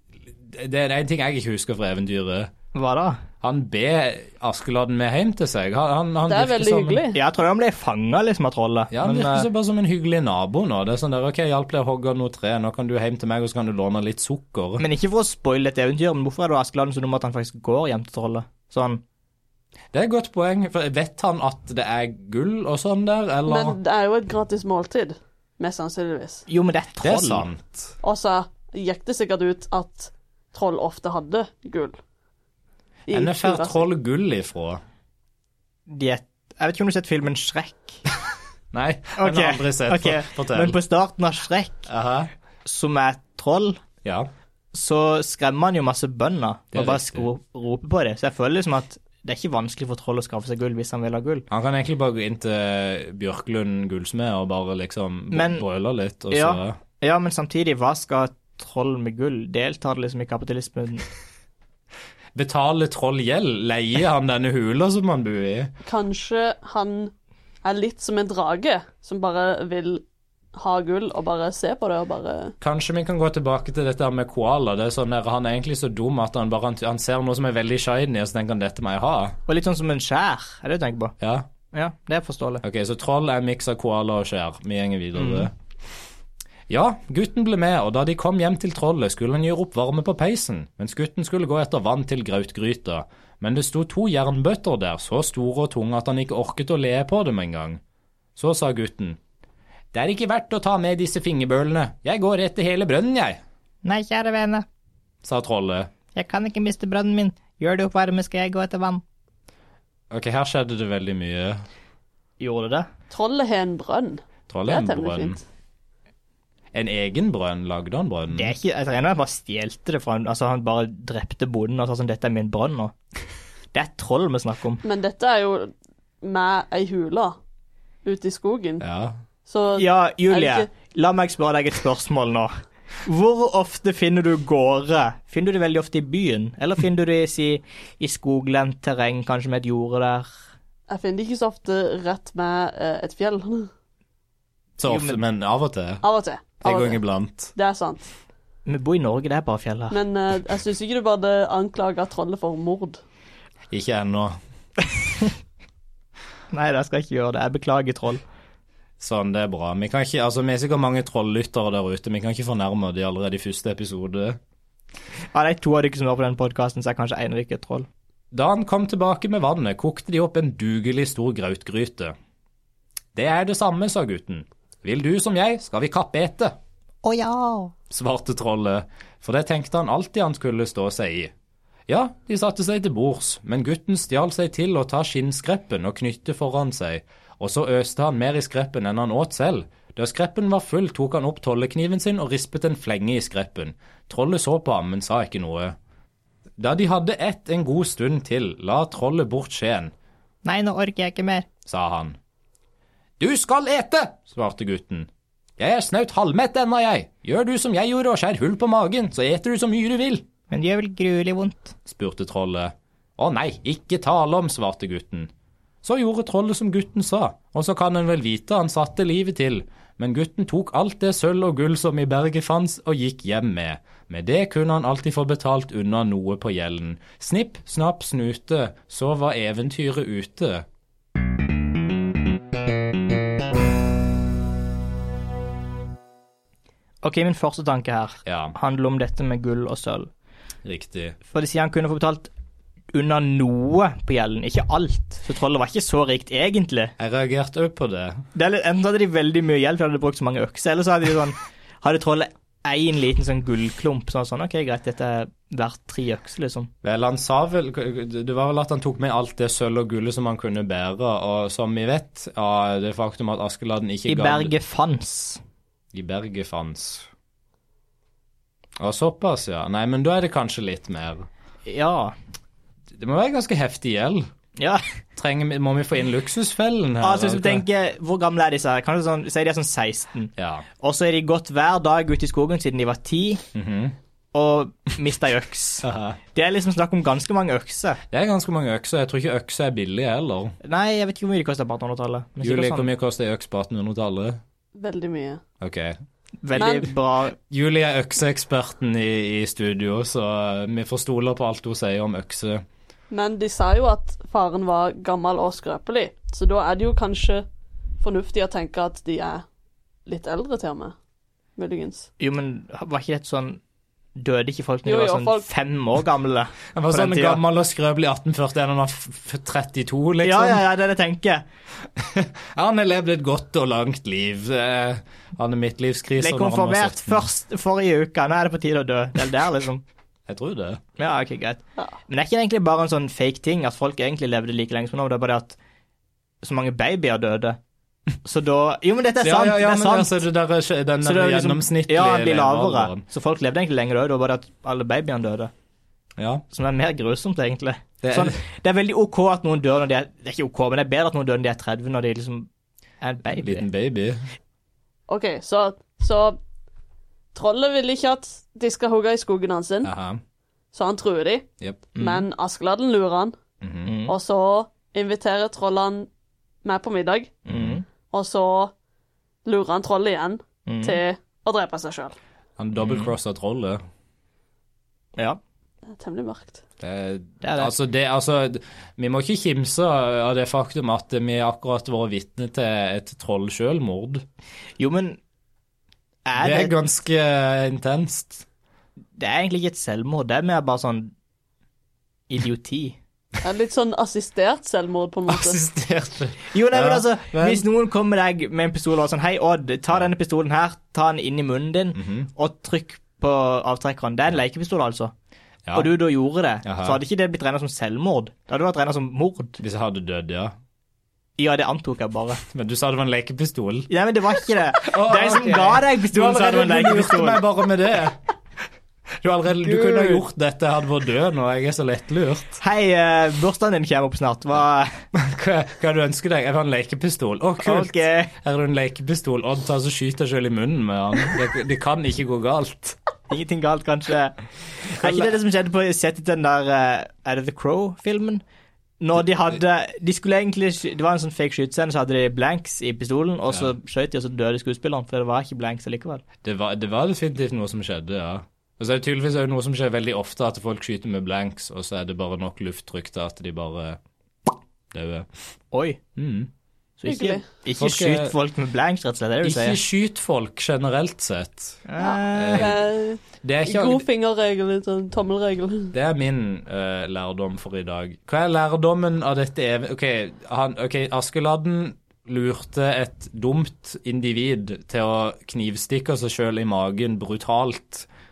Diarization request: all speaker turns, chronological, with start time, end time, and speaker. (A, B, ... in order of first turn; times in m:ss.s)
0:00.4-0:02.5 A
0:02.7-0:03.2 B
0:03.4-0:07.0 A
0:06.3-0:07.2 C
0:07.1-0:09.5 B
0:08.9-0:14.8 A
0:14.8-0:19.0 B
0:19.9-0:23.8 A
0:23.5-0:26.4 C
0:26.5-0:27.5 B
0:27.0-0:27.9 A
0:28.0-0:32.0 C
0:33.1-0:33.8 C
0:33.1-0:34.8 A
0:35.9-0:38.0 B
0:38.7-0:40.8 A
0:39.2-0:41.9 B
0:41.9-0:42.3 A
0:42.6-0:43.8 B
0:44.0-0:44.3 A
0:44.7-0:51.5 B
0:46.7-0:47.3 A
0:51.5-0:56.8 A
0:55.3-0:55.6 B
0:56.3-1:01.1 B
1:02.4-1:05.7 A
1:05.8-1:07.1 C
1:07.6-1:10.0 C
1:10.6-1:12.6 C
1:12.6-1:19.4 A
1:19.5-1:21.2 B
1:21.2-1:21.5 A
1:21.7-1:22.6 B
1:22.6-1:25.5 A
1:25.2-1:25.5 B
1:26.7-1:37.8 A
1:38.4-1:39.2 A
1:39.9-1:43.4 A
1:43.8-1:44.7 B
1:45.2-1:45.9 A
1:46.2-1:49.0 B
1:50.1-1:51.6 A
1:52.4-1:52.9 B
1:53.1-1:55.4 C
1:54.5-1:55.4 A
1:56.7-1:58.6 A
1:58.3-2:02.9 B
2:03.7-2:04.8 B
2:04.8-2:07.4 C
2:08.0-2:08.8 C
2:08.8-2:09.2 A
2:09.5-2:10.7 C
2:09.8-2:20.3 B
2:20.9-2:23.7 C
2:24.8-2:26.0 A
2:24.8-2:25.2 B
2:26.0-2:27.0 C
2:26.6-2:27.5 A
2:27.5-2:28.1 C
2:28.7-2:30.0 B
2:29.9-2:33.0 C
2:33.7-2:34.4 A
2:36.5-2:38.2 B
2:39.0-2:44.4 A
2:45.3-2:47.9 B
2:48.3-2:52.1 A
2:53.2-2:56.6 A
2:57.0-2:57.7 B
2:57.9-3:01.3 A
3:01.9-3:15.8 A
3:16.6-3:19.9 A
3:20.4-3:21.5 B
3:21.7-3:22.2 A
3:23.2-3:30.3 A
3:30.5-3:31.8 B
3:31.9-3:35.3 A
3:35.8-3:50.7 A
3:57.0-4:00.1 B
3:58.2-3:58.6 A
4:00.6-4:01.2 A
4:01.3-4:02.3 B
4:02.9-4:06.9 B
4:07.0-4:08.2 A
4:08.4-4:16.7 B
4:16.8-4:24.5 A
4:24.1-4:25.4 B
4:25.9-4:27.1 A
4:28.8-4:31.3 A
4:31.7-4:32.2 B
4:32.9-4:34.3 A
4:34.6-4:34.8 B
4:35.2-4:37.6 A
4:37.0-4:43.4 B
4:40.4-4:40.7 A
4:43.5-4:44.0 A
4:44.3-4:48.0 B
4:45.8-4:46.2 A
4:48.1-4:50.6 A
4:50.6-4:52.9 B
4:52.4-4:54.4 A
4:54.8-4:55.4 C
4:55.6-4:56.0 A
4:56.4-4:57.4 B
4:56.6-4:56.9 C
4:57.5-5:02.6 A
5:03.1-5:07.4 C
5:08.0-5:09.4 C
5:10.1-5:11.0 C
5:11.6-5:12.1 C
5:12.2-5:13.6 B
5:14.2-5:17.4 B
5:14.9-5:15.5 C
5:16.7-5:20.6 A
5:20.2-5:21.4 B
5:22.0-5:27.2 A
5:26.2-5:29.8 B
5:30.3-5:30.8 A
5:31.0-5:35.6 B
5:36.4-5:37.6 B
5:38.2-5:40.2 B
5:39.2-5:43.0 A
5:41.0-5:45.5 B
5:46.2-5:46.4 A
5:46.5-5:52.5 B
5:48.0-5:48.4 A
5:53.0-5:53.7 B
5:53.4-5:54.2 A
5:55.1-5:56.4 C
5:57.3-5:59.9 C
5:59.8-6:00.2 A
6:00.7-6:03.4 C
6:01.6-6:01.9 A
6:02.0-6:02.3 B
6:03.6-6:03.9 A
6:03.8-6:04.2 B
6:04.1-6:06.1 C
6:06.6-6:07.4 C
6:07.5-6:07.8 B
6:07.5-6:07.8 A
6:08.1-6:08.7 C
6:09.4-6:12.2 C
6:10.7-6:11.0 B
6:12.6-6:13.8 A
6:12.8-6:13.1 B
6:15.9-6:16.6 C
6:16.8-6:24.2 A
6:17.4-6:17.7 B
6:24.8-6:25.2 B
6:26.3-6:26.8 B
6:26.4-6:28.5 A
6:29.2-6:31.1 B
6:32.3-6:33.0 B
6:33.4-6:35.6 C
6:35.3-6:37.6 A
6:36.5-6:45.1 B
6:42.0-6:42.3 A
6:45.7-6:45.9 A
6:45.7-6:49.6 B
6:46.6-6:47.0 A
6:49.6-6:50.5 A
6:51.4-6:52.4 B
6:52.5-6:53.9 A
6:53.9-6:57.5 B
6:54.8-6:58.2 A
6:59.2-7:02.6 A
6:59.5-7:00.2 B
7:02.6-7:05.0 B
7:05.1-7:13.0 A
7:07.6-7:08.3 B
7:13.3-7:18.4 B
7:15.0-7:15.3 A
7:19.0-7:26.2 B
7:26.4-7:35.3 A
7:35.7-7:36.0 B
7:36.2-7:36.5 A
7:37.0-7:39.8 B
7:37.1-7:37.4 C
7:37.8-7:38.4 A
7:39.4-7:41.8 A
7:41.9-7:42.7 B
7:42.0-7:45.9 C
7:42.4-7:42.8 A
7:43.4-7:44.0 A
7:45.9-7:58.1 A